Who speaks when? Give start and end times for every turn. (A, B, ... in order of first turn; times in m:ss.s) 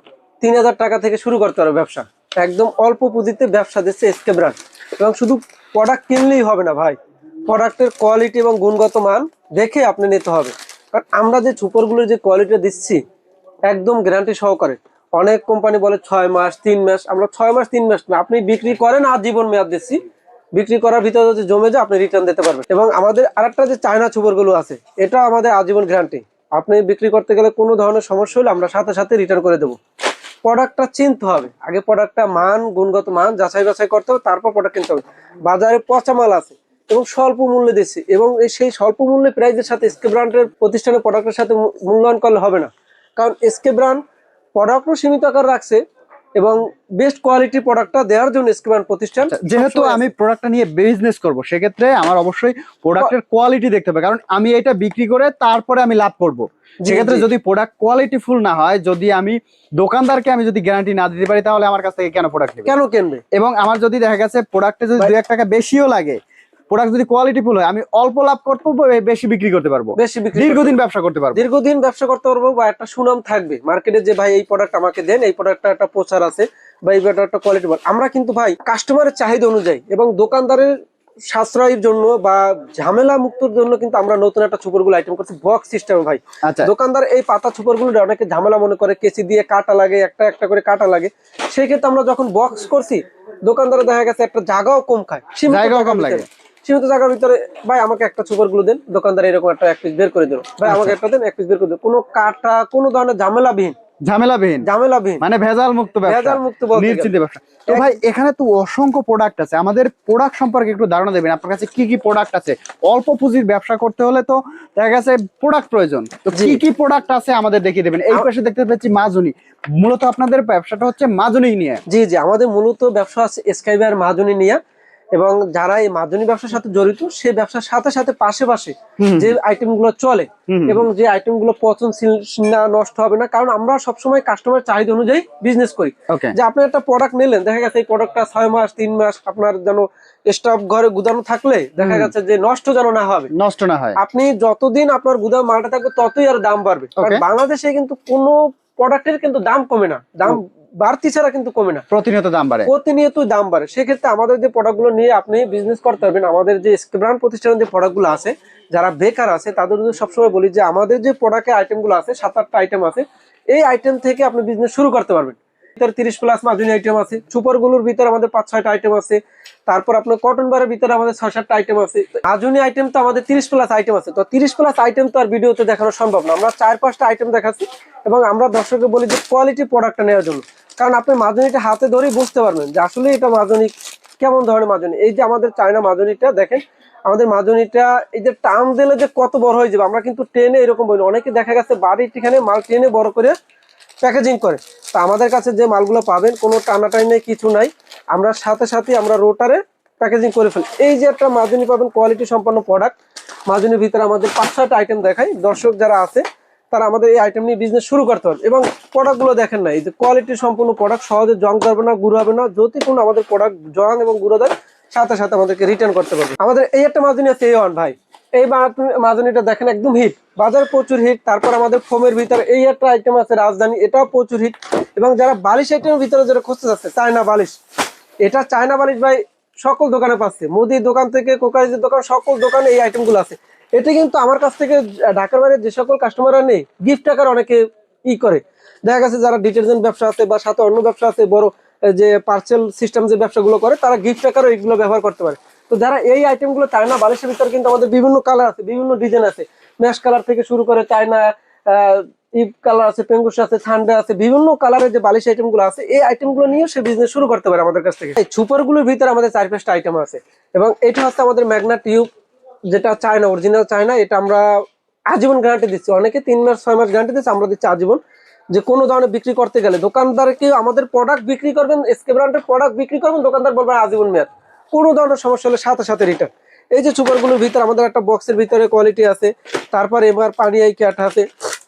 0:00.4-0:07.0 A
0:07.5-0:13.0 A
0:13.7-0:20.0 A
0:20.5-0:29.8 A
0:30.4-0:44.0 A
0:44.6-0:45.8 A
0:46.4-0:50.1 A
0:49.3-1:02.7 B
0:56.8-0:57.2 A
1:02.6-1:03.2 A
1:03.3-1:06.2 B
1:06.7-1:11.4 B
1:10.0-1:10.8 A
1:11.3-1:20.7 A
1:21.3-1:43.7 A
1:26.4-1:26.7 B
1:35.5-1:36.2 B
1:40.6-1:41.0 B
1:44.0-1:44.6 B
1:44.6-1:45.2 A
1:45.2-2:01.8 B
1:46.0-1:47.1 A
1:47.7-1:47.9 A
1:56.3-1:56.6 A
2:01.9-2:04.6 A
2:05.1-2:23.3 A
2:09.0-2:09.3 B
2:10.5-2:10.8 B
2:16.1-2:16.3 B
2:21.8-2:22.1 B
2:23.3-2:24.0 B
2:24.0-2:31.8 A
2:27.0-2:27.2 B
2:31.9-2:32.7 B
2:32.6-3:13.3 A
3:14.0-3:22.9 A
3:23.5-3:47.5 A
3:48.2-4:22.1 A
4:22.7-4:24.5 A
4:25.1-4:28.0 A
4:28.5-4:41.3 A